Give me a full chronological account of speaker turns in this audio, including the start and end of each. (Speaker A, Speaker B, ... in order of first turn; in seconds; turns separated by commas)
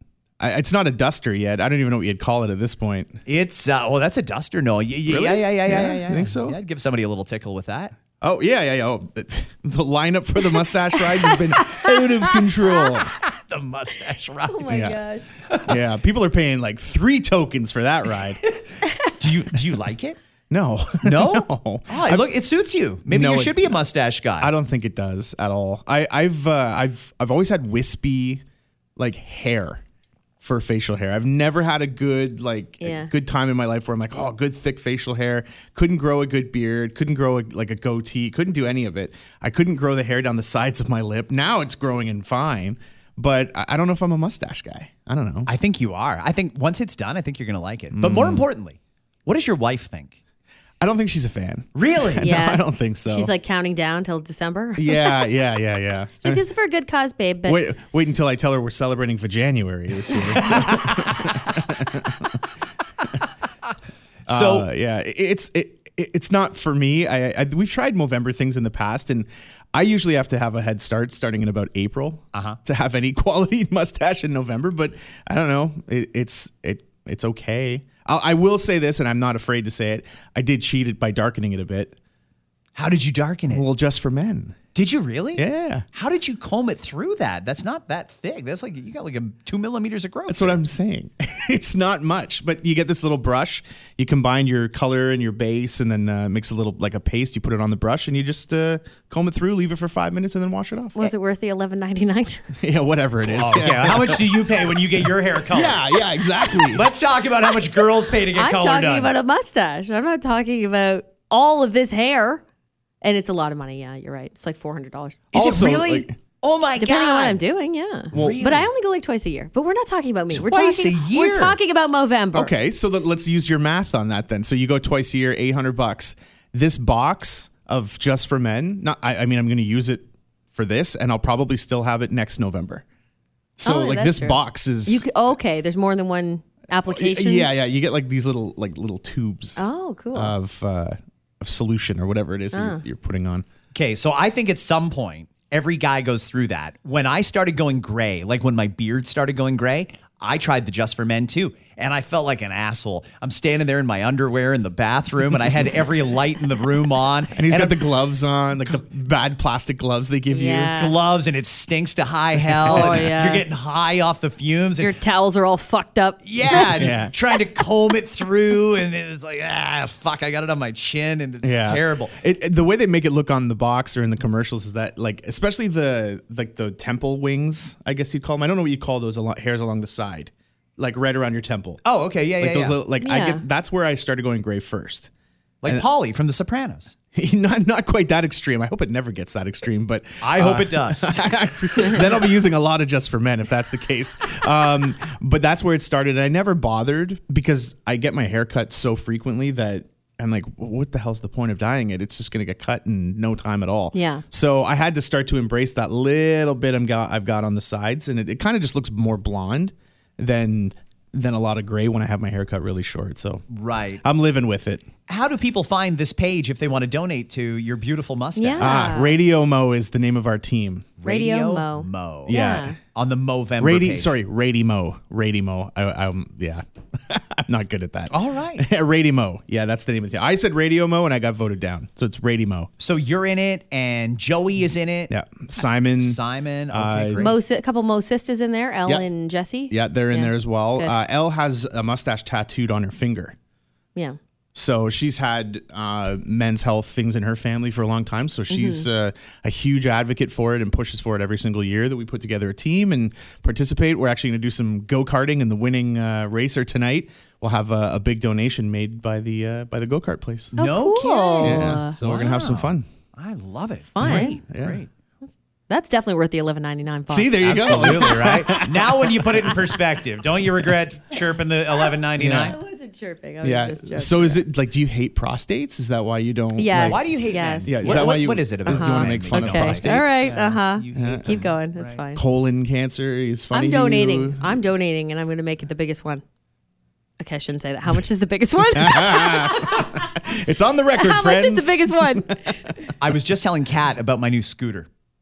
Speaker A: 0.4-3.2, Speaker B: 3.3-8.0, Speaker A: 5.1-6.6, Speaker A: 8.2-13.1, Speaker C: 11.2-12.9, Speaker B: 13.2-14.9, Speaker C: 14.5-15.3, Speaker A: 14.7-15.0, Speaker B: 15.5-15.8, Speaker A: 15.6-18.4, Speaker C: 18.8-19.1, Speaker B: 19.1-20.2, Speaker A: 20.5-22.3, Speaker B: 21.0-24.5, Speaker A: 23.1-23.8, Speaker A: 24.4-28.4, Speaker A: 29.0-29.8, Speaker A: 30.4-45.5, Speaker C: 32.8-33.1, Speaker B: 45.5-50.2, Speaker A: 47.9-48.5, Speaker A: 50.8-53.3, Speaker B: 51.8-52.3, Speaker C: 52.2-55.3, Speaker A: 54.8-56.4, Speaker C: 56.2-57.7, Speaker A: 57.5-62.4, Speaker B: 60.3-61.5, Speaker B: 64.3-64.7, Speaker A: 64.3-82.0, Speaker B: 82.8-83.7, Speaker A: 83.5-84.6, Speaker B: 84.8-90.6, Speaker A: 85.4-85.8, Speaker A: 90.3-101.1, Speaker C: 101.0-102.5, Speaker A: 102.6-104.8, Speaker B: 103.3-105.8, Speaker A: 105.5-106.9, Speaker B: 106.6-109.1, Speaker C: 108.3-112.4, Speaker C: 113.0-115.2, Speaker B: 115.3-117.4, Speaker A: 115.3-116.1, Speaker C: 116.8-122.5, Speaker A: 118.1-118.5, Speaker B: 118.1-118.7, Speaker B: 120.3-121.6, Speaker A: 122.3-132.8, Speaker A: 133.6-135.1, Speaker C: 133.6-137.6, Speaker A: 136.9-139.6, Speaker C: 139.6-140.3, Speaker A: 140.1-143.5, Speaker C: 142.5-142.8, Speaker B: 143.7-157.8, Speaker A: 157.3-160.7, Speaker C: 160.3-161.0, Speaker B: 160.8-164.9, Speaker A: 162.4-163.2, Speaker C: 162.7-163.4, Speaker C: 164.8-166.7, Speaker B: 166.2-172.1, Speaker A: 166.5-167.1, Speaker A: 171.4-181.8, Speaker B: 181.8-182.8, Speaker A: 182.4-185.1, Speaker C: 183.0-183.4, Speaker B: 185.6-186.9, Speaker A: 187.1-213.4, Speaker B: 190.2-191.3, Speaker B: 191.8-192.1, Speaker C: 203.9-204.2, Speaker B: 213.5-214.0, Speaker A: 214.0-214.9, Speaker B: 215.1-218.8, Speaker C: 218.4-219.2, Speaker A: 218.6-221.0, Speaker B: 221.0-222.3, Speaker C: 221.1-222.8, Speaker A: 222.3-222.8, Speaker B: 222.9-224.1, Speaker A: 223.6-232.7, Speaker B: 228.1-228.7, Speaker B: 232.8-235.1, Speaker A: 235.1-236.2, Speaker B: 236.0-237.4, Speaker A: 236.7-237.3, Speaker C: 237.2-240.9, Speaker A: 239.7-243.4, Speaker A: 244.5-260.5, Speaker C: 248.5-248.9, Speaker B: 260.6-264.9, Speaker C: 260.6-262.0, Speaker A: 261.4-262.9, Speaker C: 263.9-264.4, Speaker A: 264.0-264.8, Speaker C: 265.7-268.3, Speaker A: 267.1-269.5, Speaker B: 267.4-272.6, Speaker A: 272.2-272.6, Speaker C: 272.3-274.4, Speaker A: 273.4-280.3, Speaker C: 276.6-282.2, Speaker B: 276.8-282.0, Speaker A: 280.9-281.4, Speaker A: 282.1-284.6, Speaker C: 283.5-286.2, Speaker C: 287.2-290.1, Speaker A: 288.7-292.9, Speaker C: 290.9-292.8, Speaker B: 293.0-294.9